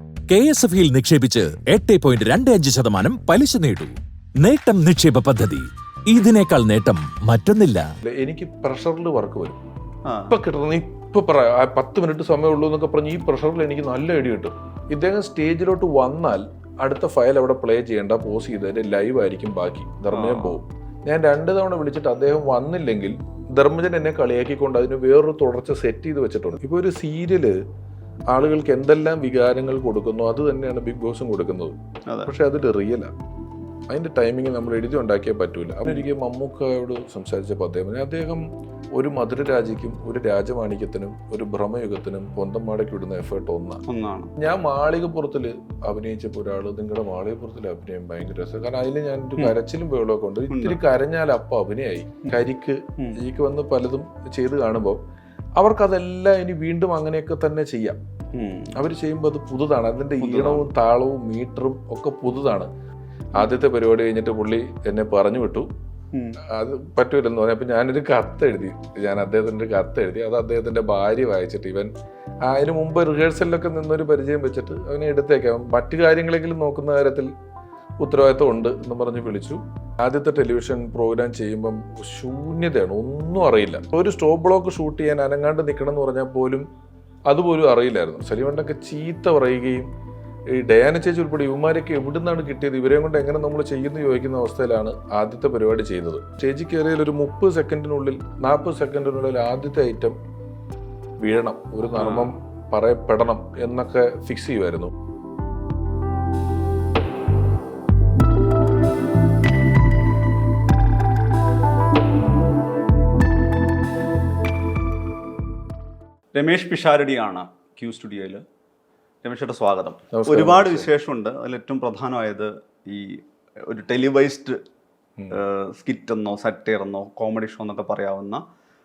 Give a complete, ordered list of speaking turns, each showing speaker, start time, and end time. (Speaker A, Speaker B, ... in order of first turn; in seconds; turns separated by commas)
Speaker A: 0.3-7.9, Speaker B: 8.0-9.6, Speaker C: 10.1-10.3, Speaker B: 10.3-27.6, Speaker C: 20.1-20.6, Speaker B: 28.3-33.1, Speaker B: 33.9-38.4, Speaker B: 38.9-43.8, Speaker C: 43.9-44.3, Speaker B: 44.4-55.0, Speaker C: 50.5-50.8, Speaker B: 55.6-58.0, Speaker C: 58.3-58.7, Speaker B: 58.8-62.7, Speaker C: 60.2-60.7, Speaker B: 63.3-65.7, Speaker C: 66.1-66.4, Speaker B: 66.5-71.9, Speaker B: 72.4-77.3, Speaker B: 78.0-86.7, Speaker B: 87.3-89.9, Speaker B: 90.5-100.2, Speaker B: 101.2-104.9, Speaker C: 101.9-102.3, Speaker C: 116.3-118.4, Speaker C: 119.2-124.6, Speaker B: 120.1-120.9, Speaker C: 125.3-128.4